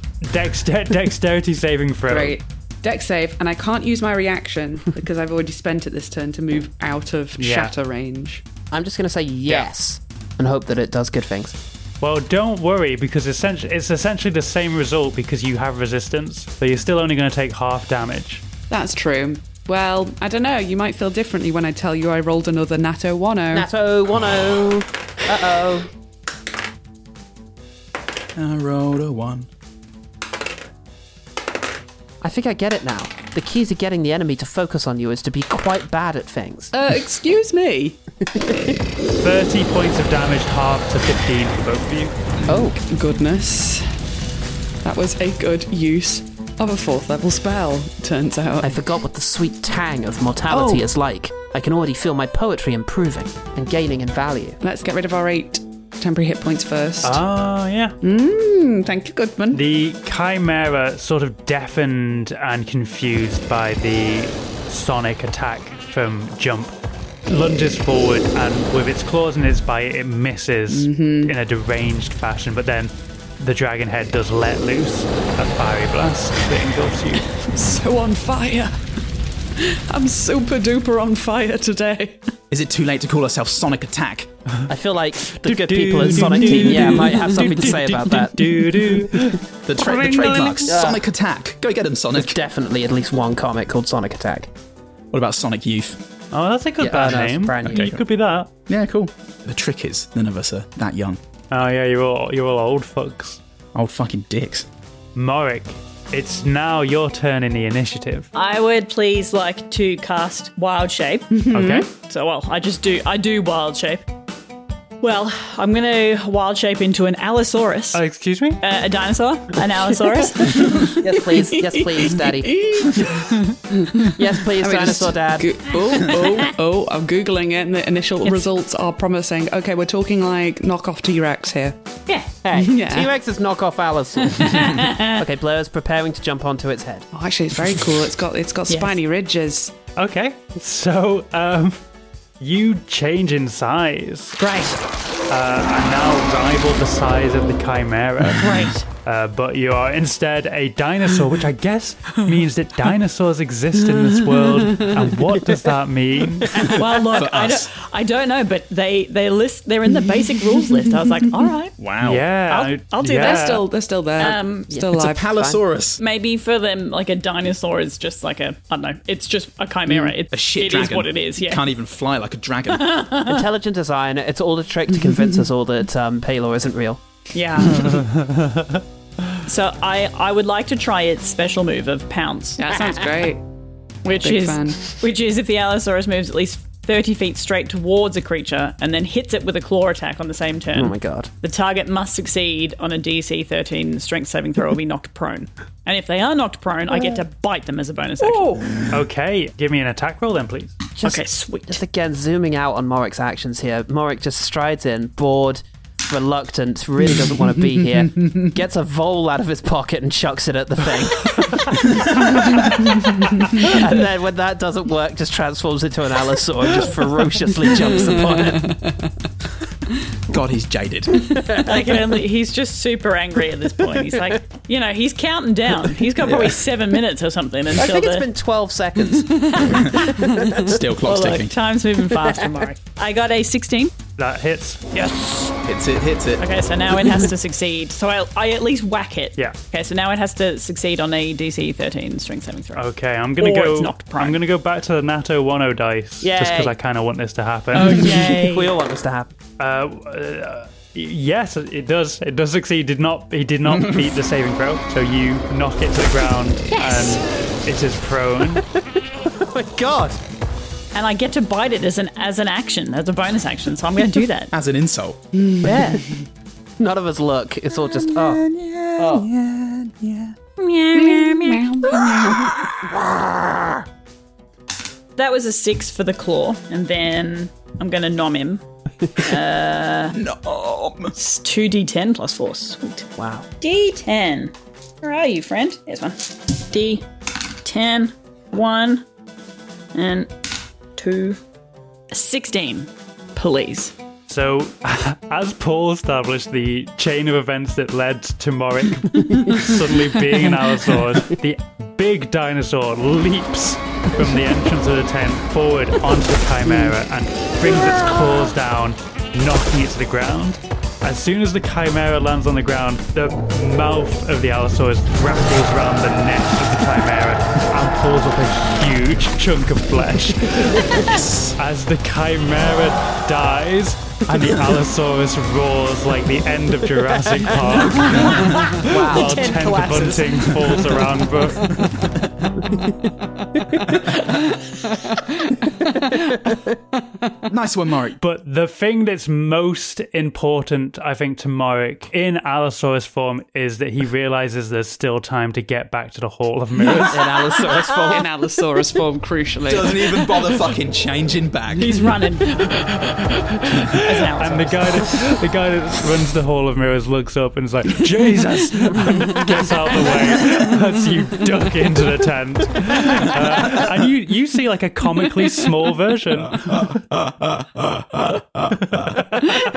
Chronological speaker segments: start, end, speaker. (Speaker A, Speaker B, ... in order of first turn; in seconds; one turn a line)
Speaker A: 0.2-2.4
Speaker B: 2.1-8.4
Speaker A: 7.4-7.7
Speaker C: 8.7-11.6
Speaker A: 12.0-18.4
Speaker B: 18.7-23.7
Speaker C: 23.5-25.9
Speaker D: 28.4-29.5
Speaker C: 32.2-36.7
Speaker B: 36.7-38.0
Speaker A: 39.2-42.1
Speaker C: 42.5-42.8
Speaker B: 42.7-43.9
Speaker B: 44.8-48.8
Speaker C: 48.6-54.6
Speaker B: 50.5-50.9
Speaker B: 54.6-57.2
Speaker A: 57.0-58.0
Speaker B: 58.0-59.6
Speaker A: 59.5-66.7
Speaker A: 67.3-77.3
Speaker B: 70.7-71.3
Speaker B: 77.3-78.9
Speaker B: 79.6-82.3
Speaker D: 82.5-84.3
Speaker C: 84.7-89.3
Speaker A: 85.3-90.7
Speaker D: 89.6-92.4
Speaker C: 90.7-91.0
Speaker C: 92.2-94.5
Speaker D: 95.1-96.0
Speaker A: 96.3-98.5
Speaker C: 96.8-97.9
Speaker D: 97.7-98.0
Speaker D: 98.7-101.2
Speaker A: 101.5-103.4
Speaker D: 103.7-104.7
Speaker A: 105.2-108.3
Speaker E: 108.3-114.1
Speaker B: 111.3-111.8
Speaker A: 111.5-111.9
Speaker E: 115.0-118.0
Speaker A: 117.9-118.6
Speaker E: 118.6-121.0
Speaker B: 120.5-131.8
Speaker C: 120.7-122.9
Speaker C: 124.1-125.5
Speaker E: 132.1-132.3
Speaker C: 132.4-137.1
Speaker B: 132.5-133.1
Speaker E: 134.4-135.2
Speaker B: 137.1-139.7
Speaker E: 138.7-139.0
Speaker A: 140.0-141.8
Speaker A: 142.4-144.4
Speaker E: 144.4-144.8
Speaker A: 145.3-156.6
Speaker E: 148.3-148.9
Speaker B: 154.6-154.9
Speaker D: 156.5-157.7
Speaker E: 156.6-161.8
Speaker D: 161.8-162.3
Speaker A: 162.0-163.7
Speaker E: 162.5-164.8
Speaker B: 163.2-165.3
Speaker C: 164.2-165.6
Speaker D: 165.0-166.0
Speaker E: 166.0-171.7
Speaker D: 170.3-173.0
Speaker E: 172.7-173.5
Speaker C: 173.2-177.0
Speaker E: 177.3-178.0
Speaker A: 177.7-178.8
Speaker E: 179.4-183.2
Speaker B: 182.6-183.4
Speaker E: 184.0-198.7
Speaker B: 184.2-185.0
Speaker C: 190.8-191.3
Speaker B: 198.2-198.7
Speaker A: 198.9-200.8
Speaker C: 201.0-218.8
Speaker E: 201.0-201.8
Speaker D: 212.0-212.6
Speaker B: 217.8-219.1
Speaker D: 220.3-221.4
Speaker C: 221.2-222.1
Speaker E: 221.6-228.3
Speaker C: 223.8-224.4
Speaker D: 226.2-226.6
Speaker C: 227.8-230.8
Speaker D: 229.7-230.0
Speaker D: 230.6-231.6
Speaker E: 231.0-234.0
Speaker C: 232.1-232.6
Speaker A: 234.2-234.9
Speaker E: 234.9-235.6
Speaker D: 235.6-236.4
Speaker E: 236.4-244.4
Speaker A: 242.7-248.3
Speaker C: 246.2-246.7
Speaker E: 247.7-248.7
Speaker C: 247.8-249.3
Speaker A: 249.6-258.6
Speaker D: 253.7-254.1
Speaker E: 256.7-257.2
Speaker C: 258.8-260.2
Speaker E: 260.9-264.5
Speaker D: 264.5-265.2
Speaker B: 265.4-266.1
Speaker C: 265.6-266.1
Speaker C: 266.8-269.3
Speaker D: 268.4-270.3
Speaker E: 270.6-272.1
Speaker B: 270.9-272.7
Speaker C: 272.6-273.8
Speaker E: 275.2-278.6
Speaker E: 279.2-280.2
Speaker D: 280.1-281.1
Speaker E: 281.2-283.1
Speaker C: 283.2-283.5
Speaker E: 283.6-289.1
Speaker E: 289.9-290.3
Speaker E: 291.0-291.4
Speaker E: 292.1-293.9
Speaker A: 294.3-321.0
Speaker D: 321.0-321.6
Speaker A: 321.6-331.9
Speaker E: 328.0-330.8
Speaker C: 328.8-329.6
Speaker C: 332.6-332.9
Speaker C: 333.6-333.9
Speaker B: 335.8-336.5
Speaker C: 335.9-336.7
Speaker D: 337.5-338.2
Speaker A: 338.2-347.3
Speaker C: 347.1-348.3
Speaker B: 348.1-350.4
Speaker D: 349.7-352.1
Speaker E: 351.8-355.1
Speaker A: 353.8-367.0
Speaker D: 366.7-369.1
Speaker A: 368.8-369.2